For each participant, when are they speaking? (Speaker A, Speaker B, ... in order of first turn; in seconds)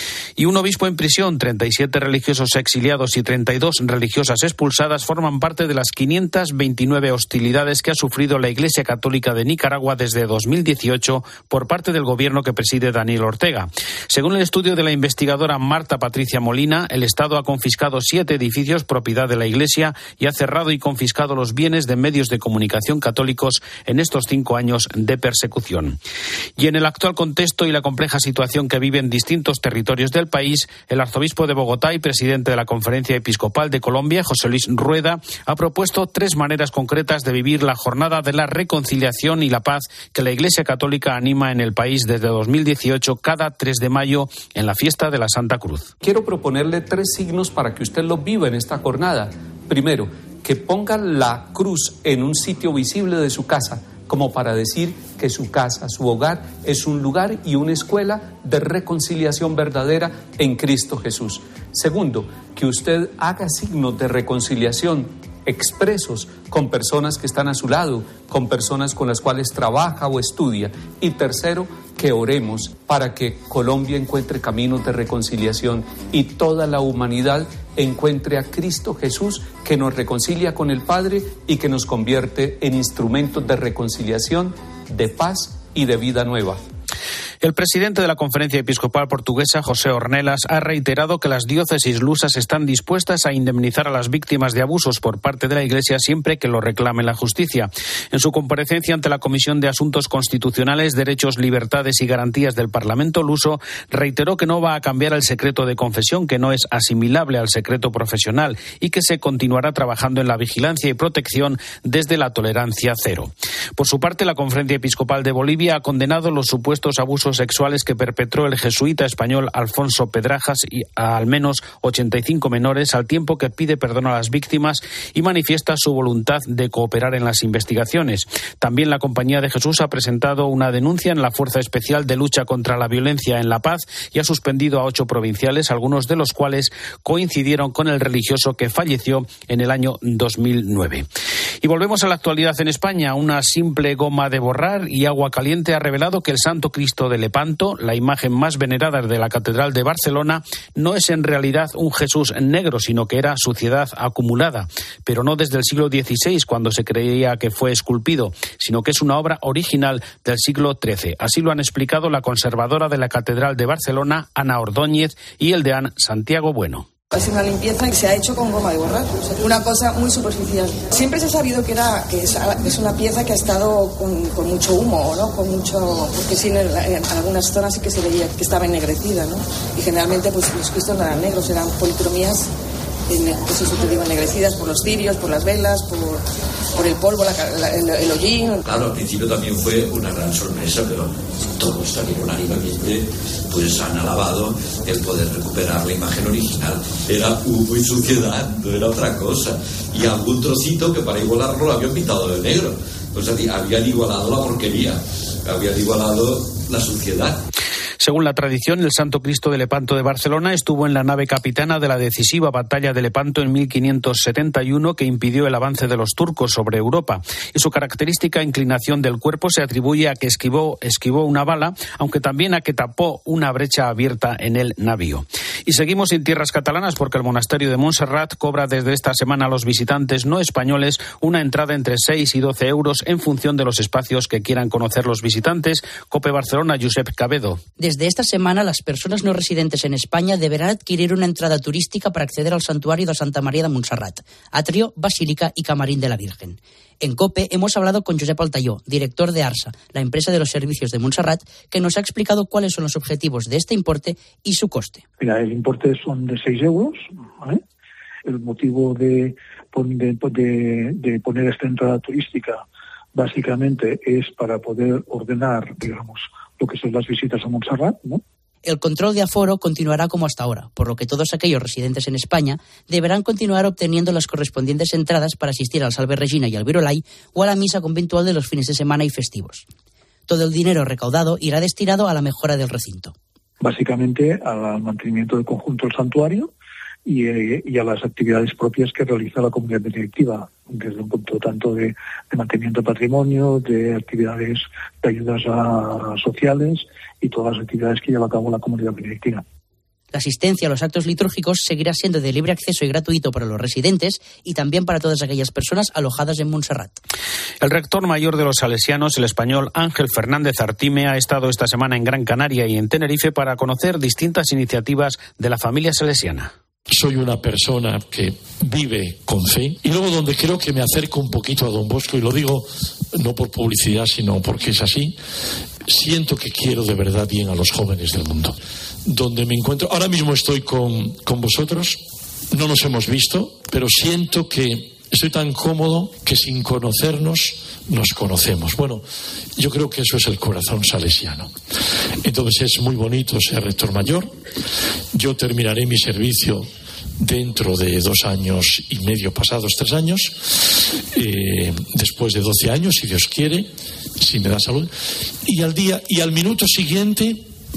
Speaker A: 0.4-26.0, 26.6-45.9, 87.4-141.1, 141.6-166.9, 208.0-237.6, 307.6-316.5
Speaker B: 46.0-86.6
Speaker C: 167.1-182.5, 183.1-186.2, 186.8-188.6
Speaker D: 188.7-207.3
Speaker E: 237.8-255.0, 268.6-279.6, 280.3-283.1, 300.1-307.0
Speaker F: 255.2-257.6, 258.3-262.6, 263.1-268.2, 283.6-286.5, 287.1-299.4
Speaker G: 316.9-325.2, 325.9-339.0, 339.6-341.5, 342.2-344.3, 345.1-346.7, 347.2-354.9, 355.5-357.5